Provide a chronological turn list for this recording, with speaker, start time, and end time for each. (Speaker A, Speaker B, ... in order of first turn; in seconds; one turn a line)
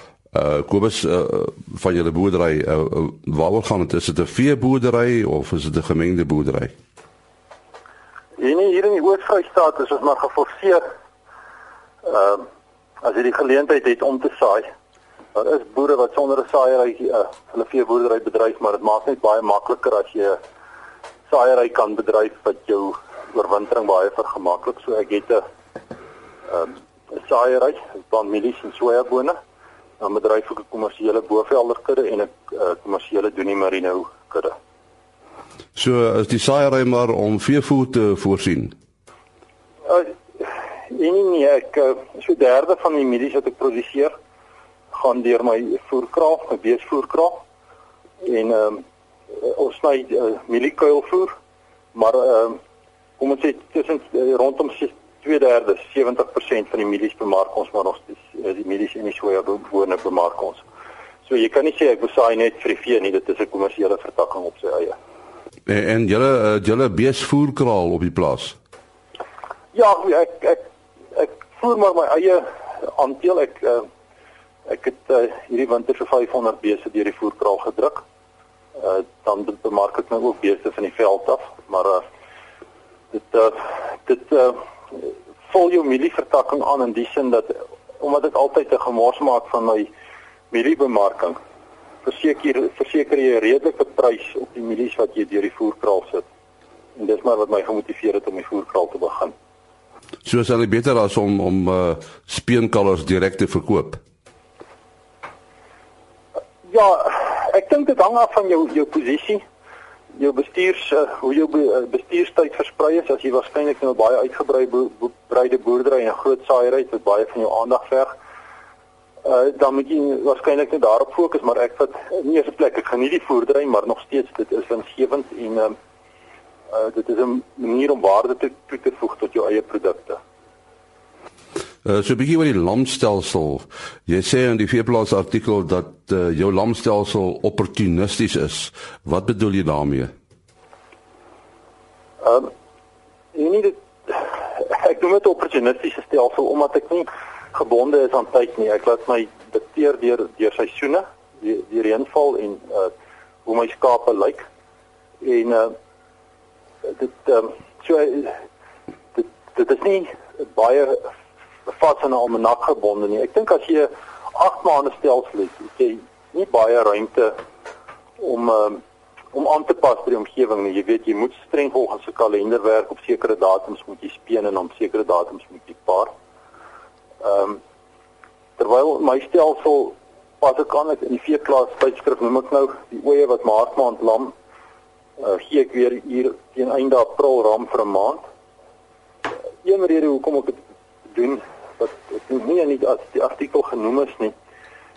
Speaker A: 0.3-6.7
Speaker B: 8.4-10.8
Speaker B: 12.0-12.5
Speaker B: 13.0-14.7
Speaker B: 15.3-20.4
Speaker B: 21.3-25.4
Speaker B: 26.5-29.4
Speaker B: 30.0-34.5
Speaker A: 35.8-38.7
Speaker B: 39.9-44.1
Speaker B: 44.9-47.4
Speaker B: 48.2-51.3
Speaker B: 51.9-52.6
Speaker B: 53.2-60.6
Speaker B: 61.3-65.0
Speaker A: 65.7-68.6
Speaker B: 69.7-70.6
Speaker B: 71.1-73.9
Speaker B: 74.7-78.0
Speaker B: 78.8-82.0
Speaker B: 83.1-89.9
Speaker B: 90.5-91.4
Speaker B: 92.0-96.3
Speaker B: 97.0-99.3
Speaker A: 100.2-104.0
Speaker B: 106.7-109.4
Speaker B: 110.2-118.1
Speaker B: 119.2-125.8
Speaker B: 126.7-130.2
Speaker A: 131.8-140.1
Speaker B: 142.2-142.5
Speaker B: 143.3-152.9
Speaker B: 153.4-154.4
Speaker B: 155.2-155.7
Speaker B: 156.8-158.4
Speaker B: 159.2-161.1
Speaker B: 161.7-167.3
Speaker B: 168.2-168.8
Speaker B: 169.3-176.1
Speaker B: 177.2-177.6
Speaker B: 178.6-184.3
Speaker B: 185.2-188.2
Speaker B: 189.6-190.6
Speaker B: 191.1-194.3